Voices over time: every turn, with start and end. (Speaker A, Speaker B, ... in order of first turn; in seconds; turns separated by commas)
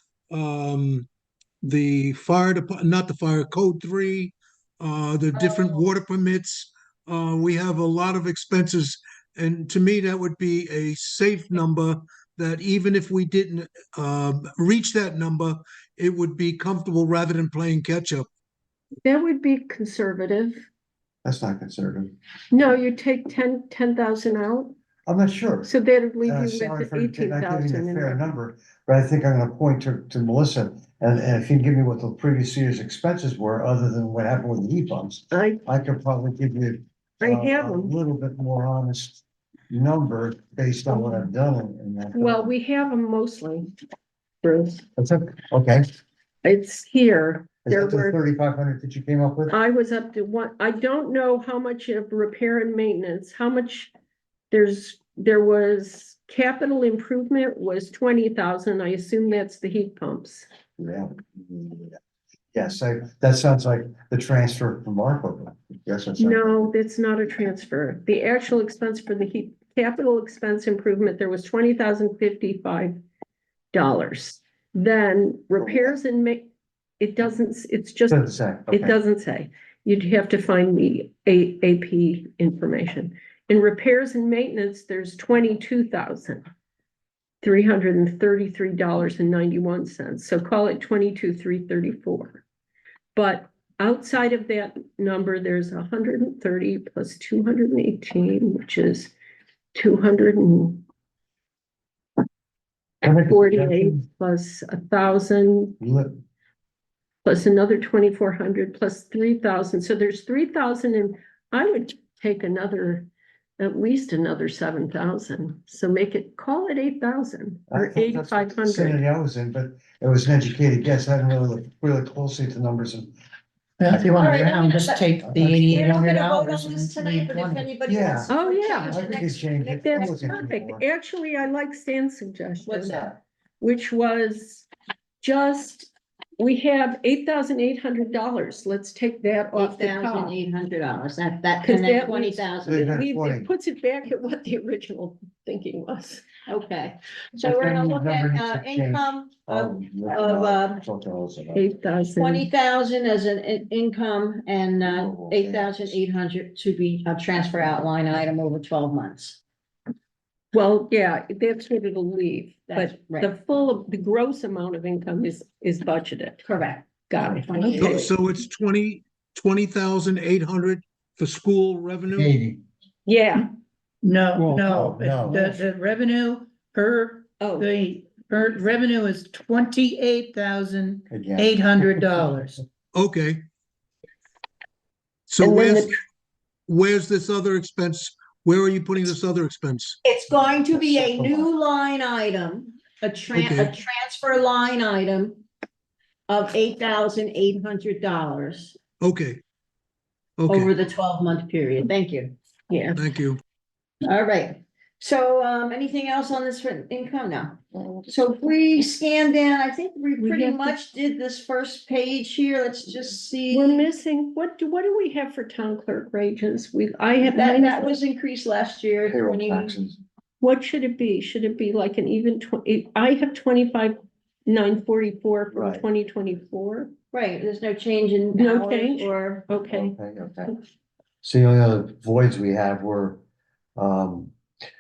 Speaker A: 0.3-1.1, Speaker A: 1.6-18.3, Speaker B: 19.0-20.6, Speaker C: 21.2-22.1, Speaker B: 22.5-24.7, Speaker C: 25.1-42.5, Speaker B: 25.6-28.3, Speaker B: 35.3-35.6, Speaker B: 37.2-38.0, Speaker B: 40.9-41.3, Speaker B: 42.1-43.7, Speaker B: 44.4-44.8, Speaker C: 45.0-45.9, Speaker B: 46.4-48.2, Speaker C: 47.7-49.6, Speaker B: 49.5-53.9, Speaker B: 54.5-60.5, Speaker C: 60.8-62.0, Speaker C: 62.5-66.7, Speaker B: 66.2-73.0, Speaker B: 73.7-76.5, Speaker C: 75.6-76.0, Speaker B: 77.0-78.2, Speaker C: 78.1-79.0, Speaker B: 78.7-86.5, Speaker B: 87.4-92.4, Speaker B: 93.2-99.1, Speaker B: 99.7-100.8, Speaker C: 103.0-104.0, Speaker B: 103.0-105.8, Speaker C: 105.8-106.2, Speaker B: 107.2-119.0, Speaker C: 117.7-123.1, Speaker D: 123.8-127.7, Speaker E: 124.2-130.5, Speaker C: 125.2-125.9, Speaker C: 127.9-128.3, Speaker B: 128.3-129.2, Speaker C: 128.8-130.8, Speaker B: 129.8-133.1, Speaker E: 132.7-133.1, Speaker C: 132.9-133.1, Speaker B: 133.6-134.7, Speaker B: 135.2-140.4, Speaker E: 139.5-142.8, Speaker B: 141.6-146.3, Speaker C: 142.6-143.5, Speaker E: 146.5-150.8, Speaker C: 147.4-151.7, Speaker B: 151.6-152.5, Speaker E: 152.2-159.4, Speaker C: 154.8-155.9, Speaker B: 160.5-166.4, Speaker E: 162.7-163.3, Speaker E: 166.4-168.1, Speaker B: 167.1-168.1, Speaker A: 167.7-172.4, Speaker B: 173.1-173.5, Speaker D: 174.0-182.6, Speaker C: 174.4-175.6, Speaker B: 177.4-177.7, Speaker C: 181.1-182.4, Speaker A: 182.9-183.4, Speaker A: 185.3-185.9, Speaker B: 185.4-185.9, Speaker A: 186.7-190.0, Speaker E: 190.0-195.4, Speaker C: 190.7-191.5, Speaker A: 193.3-193.8, Speaker E: 196.3-198.8, Speaker A: 199.0-199.4, Speaker A: 200.4-200.7, Speaker E: 200.5-202.3, Speaker B: 202.7-203.0, Speaker A: 203.0-203.4, Speaker E: 204.0-213.9, Speaker B: 210.2-210.8, Speaker B: 213.5-218.0, Speaker E: 217.3-219.8, Speaker C: 219.1-220.0, Speaker B: 220.4-226.9, Speaker C: 225.5-225.8, Speaker E: 227.1-229.5, Speaker B: 228.3-230.0, Speaker C: 229.7-230.6, Speaker C: 231.2-233.2, Speaker C: 233.8-234.3